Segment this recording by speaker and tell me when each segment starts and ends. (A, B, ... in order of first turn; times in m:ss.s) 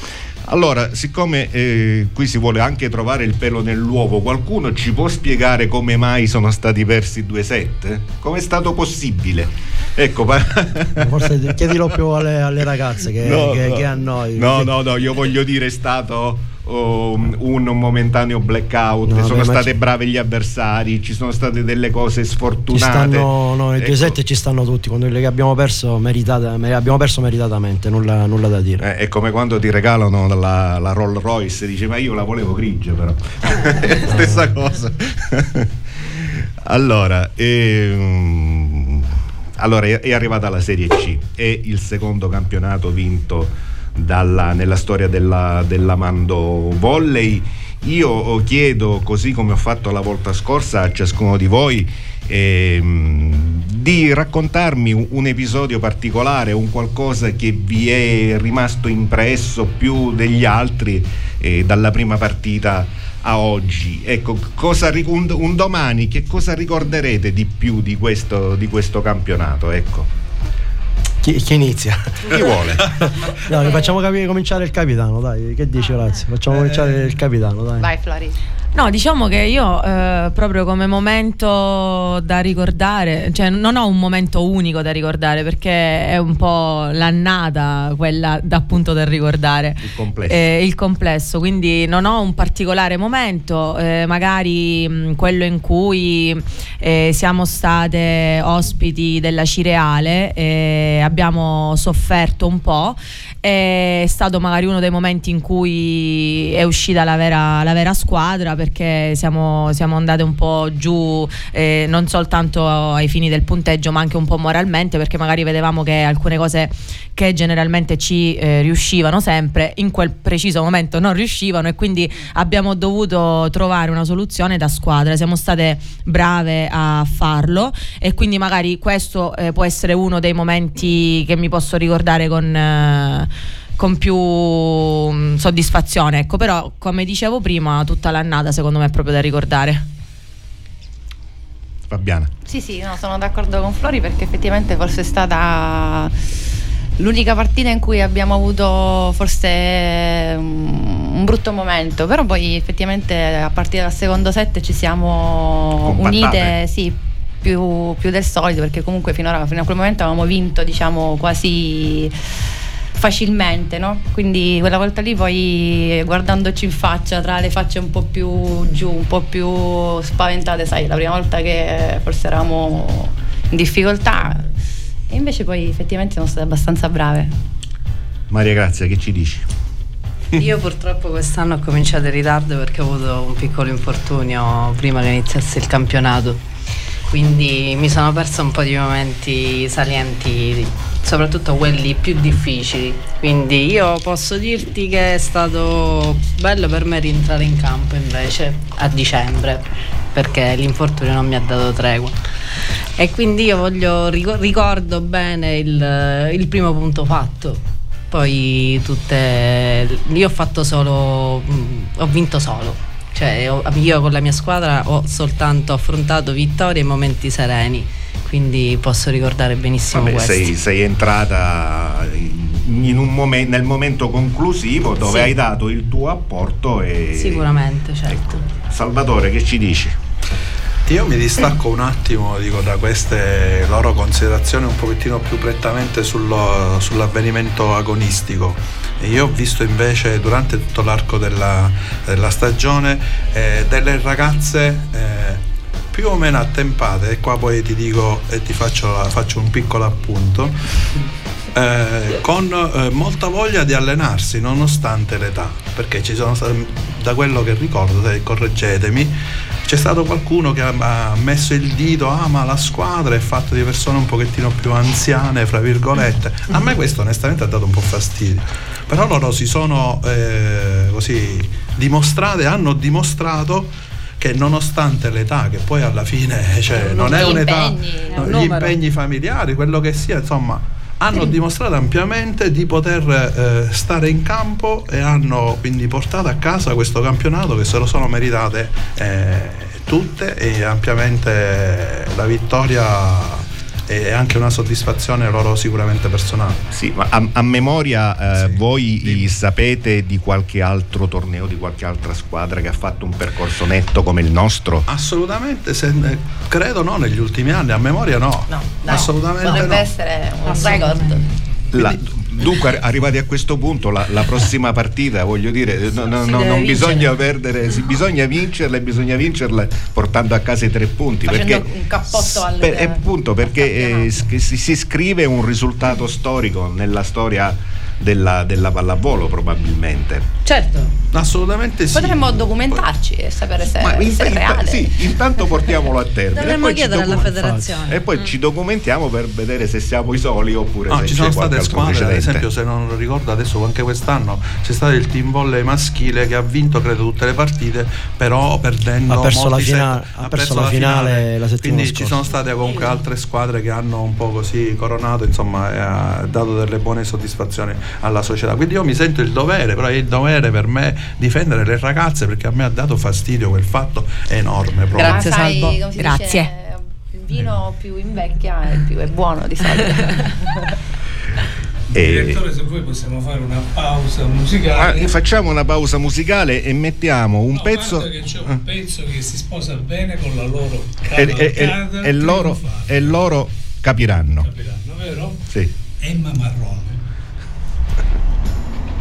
0:00.4-0:11.1 A
0:11.0-0:14.7 B
0:13.2-0:24.2 A
0:19.0-0:19.7 B
0:22.7-0:28.8 B
0:28.8-1:10.1 A
1:11.2-1:17.9 B
1:12.3-1:13.1 A
1:17.8-1:18.4 C
1:18.7-2:19.9 D
1:29.8-1:30.5 A
2:21.9-2:22.3 A
2:22.4-2:26.1 C
2:27.0-2:42.1 C
2:35.8-2:36.6 A
2:43.0-2:54.4 C
2:55.1-2:57.3 C
2:58.3-2:59.5 A
3:00.3-3:06.4 E
3:07.1-3:22.2 E
3:22.9-3:40.6 E
3:39.9-3:50.0 A
3:45.0-3:45.3 E
3:47.1-3:48.4 E
3:50.9-4:05.4 F
4:05.9-4:10.6 F
4:11.5-4:56.6 F
4:36.8-4:38.3 C
4:36.8-4:37.4 E
4:38.2-4:38.6 E
4:38.2-4:38.7 D
4:56.7-5:04.8 A
4:58.4-4:59.3 F
5:04.9-5:09.9 F
5:08.5-5:11.2 C
5:10.4-5:11.2 E
5:11.7-5:30.3 A
5:16.1-5:17.2 E
5:21.2-5:24.2 C
5:30.4-5:31.0 E
5:31.1-5:32.8 F
5:31.9-5:35.1 C
5:33.7-5:42.5 A
5:36.3-5:38.1 E
5:37.4-5:37.7 B
5:40.9-6:05.3 F
5:49.1-5:52.2 B
5:52.4-5:53.0 E
6:04.9-6:10.6 C
6:05.0-6:05.8 E
6:05.1-6:06.5 D
6:11.9-6:12.4 A
6:11.9-6:15.2 G
6:14.7-6:18.6 A
6:17.5-6:23.2 G
6:21.1-6:24.5 A
6:24.4-6:25.4 G
6:26.0-6:27.0 G